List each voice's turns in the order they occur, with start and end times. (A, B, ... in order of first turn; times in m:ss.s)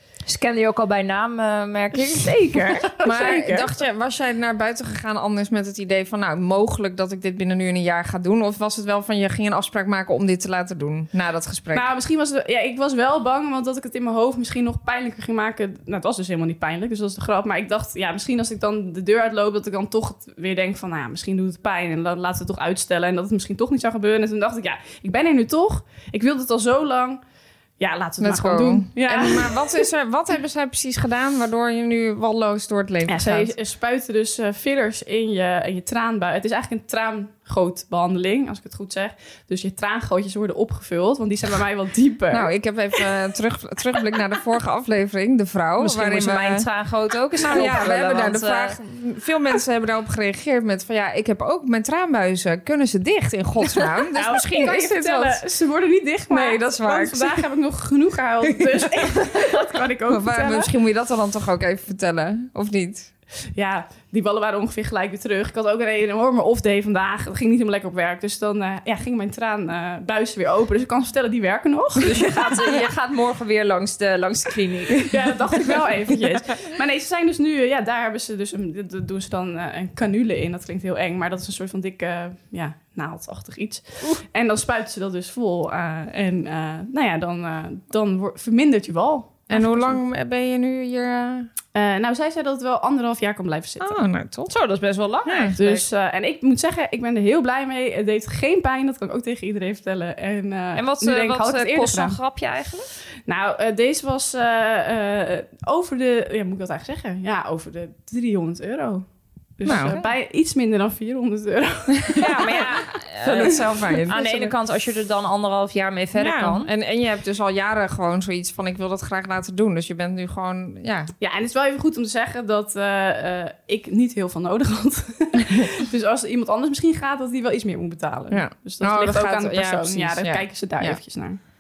0:00.3-0:02.5 A
0:01.9-0:03.7 B
0:03.0-0:11.9 C
0:11.7-0:27.2 B
0:27.8-0:29.7 B
0:28.2-0:33.5 C
0:33.1-0:42.5 B
0:42.3-0:46.7 C
0:45.8-0:48.8 A
0:47.4-0:55.4 C
0:54.2-1:00.7 B
0:56.3-0:57.4 C
0:58.5-0:59.4 C
1:00.1-1:03.1 C
1:03.6-1:12.3 B
1:12.0-1:15.1 A
1:15.1-1:30.0 B
1:29.5-1:31.5 C
1:31.8-1:34.0 B
1:33.8-1:34.6 C
1:34.5-1:35.8 A
1:35.2-1:35.6 C
1:35.6-1:42.2 B
1:40.8-1:42.9 A
1:43.3-1:49.0 B
1:49.6-1:52.7 B
1:49.7-1:50.0 C
1:49.7-1:50.1 A
1:52.2-1:52.7 C
1:52.2-1:56.7 A
1:53.2-1:54.5 C
1:53.4-1:54.1 B
1:56.2-2:01.1 C
2:01.2-2:11.4 B
2:08.3-2:11.0 C